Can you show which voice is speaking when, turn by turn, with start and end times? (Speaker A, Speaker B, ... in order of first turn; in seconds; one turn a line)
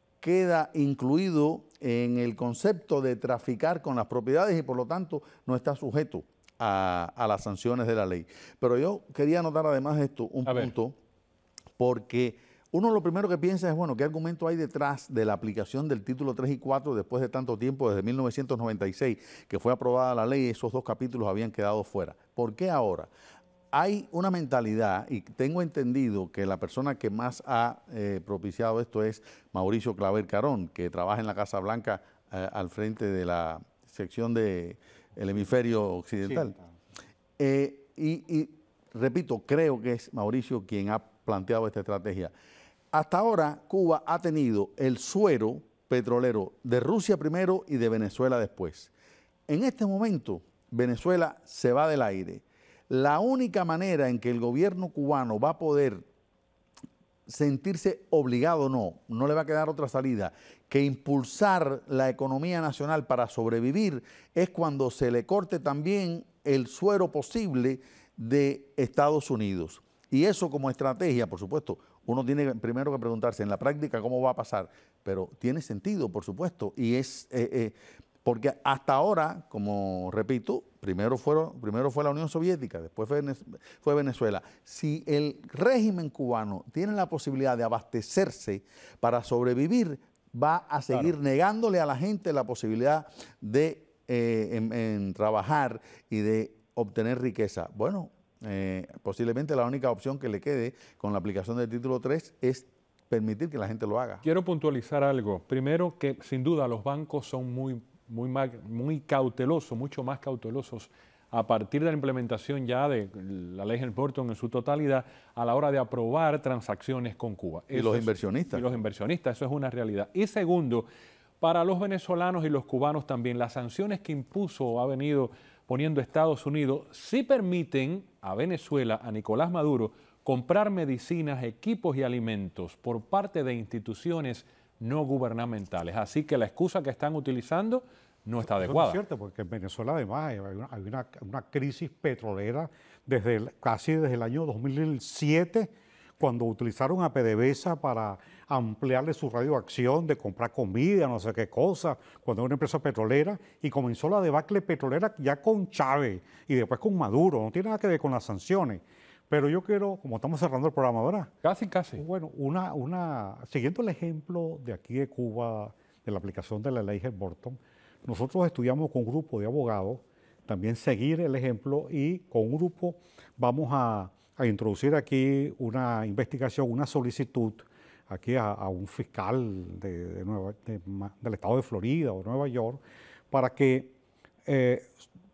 Speaker A: 0.2-10.9
Speaker B: 10.4-10.7
Speaker A: 11.8-23.1
Speaker A: 23.7-36.5
Speaker C: 36.2-36.7
Speaker A: 37.4-42.3
Speaker A: 42.9-48.9
Speaker A: 49.5-56.0
Speaker A: 57.3-104.2
Speaker B: 104.2-120.9
Speaker A: 117.7-118.6
Speaker B: 121.4-139.0
Speaker C: 138.4-161.3
Speaker B: 161.4-162.0
Speaker C: 161.9-182.8
Speaker C: 183.3-183.9
Speaker C: 184.4-185.1